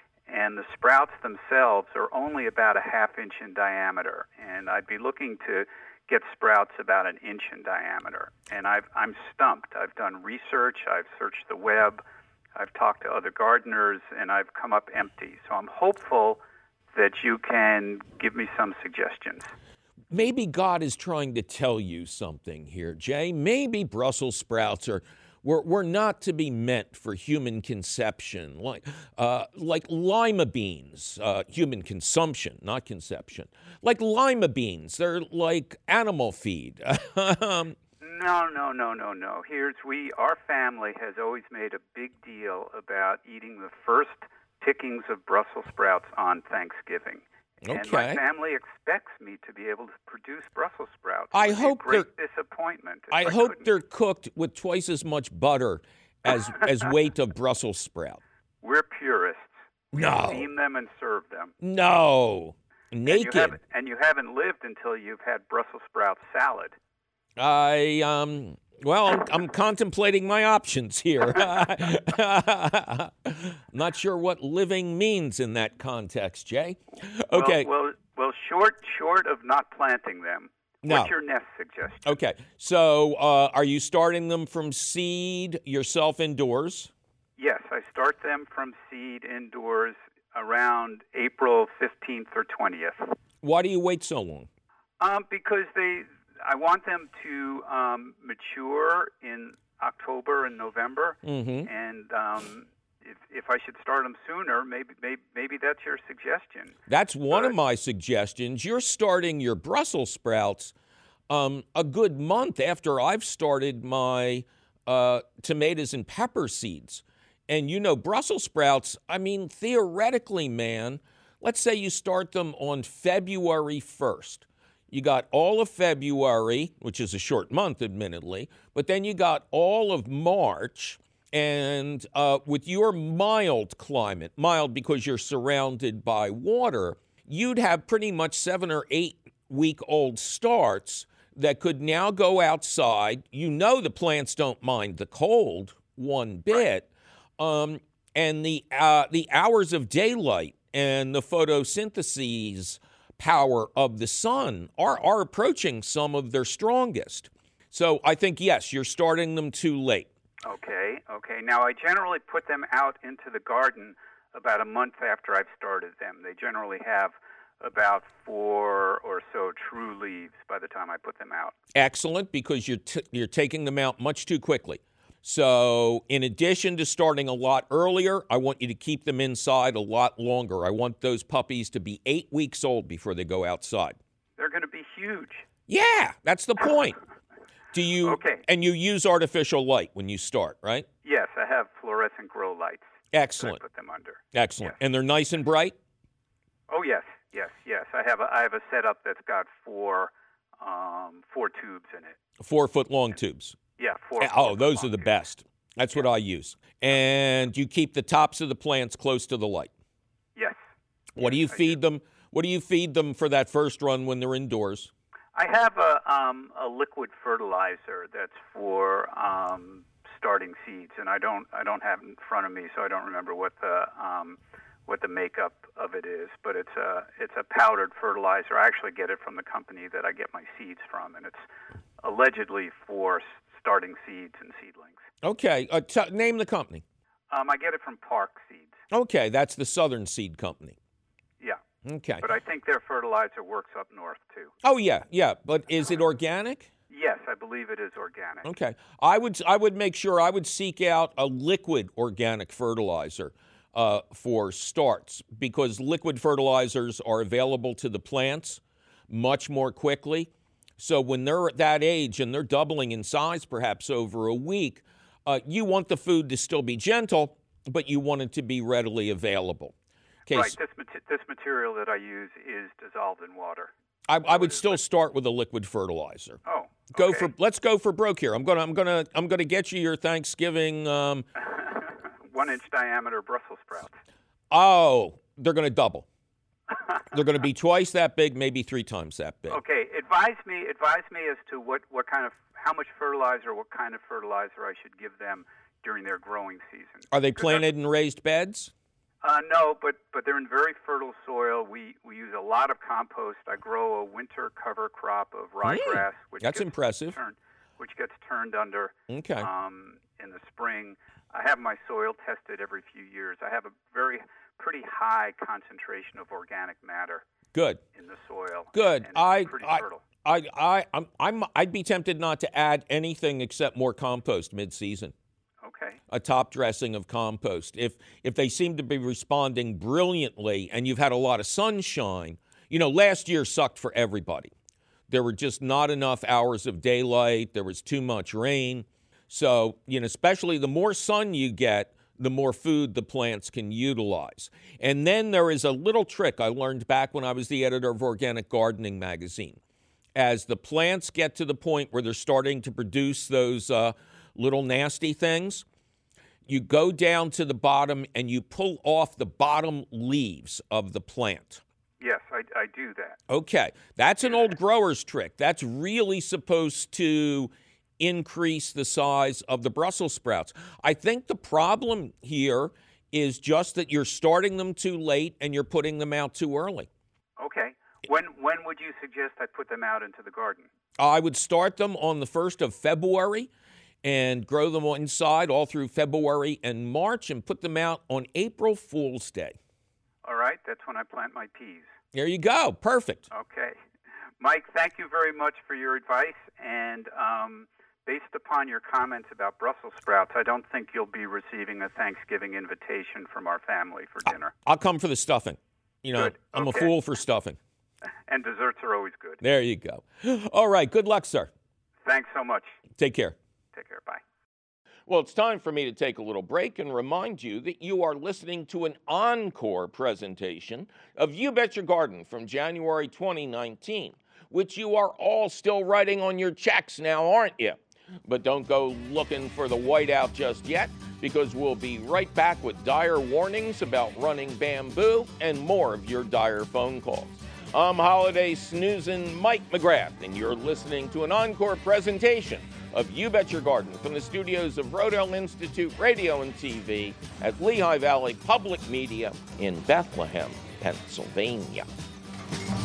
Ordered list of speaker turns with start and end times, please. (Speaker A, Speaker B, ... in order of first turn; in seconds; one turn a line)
Speaker A: 0.3-12.0
Speaker A: 12.6-16.4
Speaker A: 16.9-19.5
Speaker B: 20.1-37.8
Speaker A: 38.0-53.7
Speaker B: 47.6-48.2
Speaker B: 51.3-52.1
Speaker B: 53.1-58.2
Speaker A: 58.6-61.5
Speaker B: 59.9-60.5
Speaker B: 61.6-63.6
Speaker A: 63.0-66.7
Speaker B: 67.4-77.7
Speaker A: 77.3-82.1
Speaker B: 80.8-81.1
Speaker B: 82.0-86.9
Speaker A: 87.4-93.1
Speaker B: 93.4-94.5
Speaker A: 95.0-106.8
Speaker B: 101.2-101.7
Speaker B: 106.9-110.7
Speaker B: 111.3-146.9
Speaker B: 147.4-160.1
Speaker A: 160.4-171.5
Speaker B: 171.7-184.0
Speaker A: 184.4-185.5
Speaker B: 185.7-187.0
Speaker B: 187.7-190.8
Speaker A: 188.0-188.4
Speaker A: 191.0-192.9
Speaker B: 193.1-193.6
Speaker A: 193.4-194.8
Speaker B: 194.3-195.7
Speaker A: 196.7-202.2
Speaker B: 202.4-203.6
Speaker A: 203.8-205.1
Speaker B: 204.2-209.7
Speaker B: 211.2-214.9
Speaker A: 211.2-211.8
Speaker A: 215.3-231.4
Speaker A: 232.0-235.0
Speaker B: 235.2-236.8
Speaker A: 237.3-238.8
Speaker B: 238.9-240.8
Speaker B: 241.8-242.2
Speaker A: 242.2-244.5
Speaker B: 244.6-246.7
Speaker A: 246.9-248.4
Speaker B: 248.4-269.7
Speaker B: 270.3-270.6
Speaker A: 270.3-273.7
Speaker B: 274.1-276.4
Speaker A: 274.2-274.8
Speaker A: 276.4-277.3
Speaker B: 276.9-281.2
Speaker A: 281.4-283.9
Speaker B: 284.5-286.1
Speaker B: 287.1-289.6
Speaker A: 289.5-297.6
Speaker B: 297.1-298.7
Speaker A: 299.2-317.2
Speaker B: 305.6-307.2
Speaker B: 309.1-309.5
Speaker B: 317.5-317.8
Speaker A: 317.9-320.0
Speaker B: 318.7-325.1
Speaker A: 325.6-326.0
Speaker B: 326.1-334.5
Speaker B: 335.1-349.6
Speaker B: 350.1-355.6
Speaker B: 356.5-361.6
Speaker A: 362.0-363.2
Speaker B: 363.3-376.9
Speaker A: 377.4-380.7
Speaker B: 381.0-383.5
Speaker B: 384.0-389.6
Speaker A: 390.2-391.9
Speaker B: 392.1-393.3
Speaker A: 393.3-393.8
Speaker A: 394.4-404.5
Speaker B: 404.3-407.6
Speaker A: 406.1-406.9
Speaker A: 408.3-409.4
Speaker B: 409.4-411.5
Speaker A: 412.0-412.7
Speaker B: 413.0-413.3
Speaker A: 413.7-414.2
Speaker B: 415.1-451.9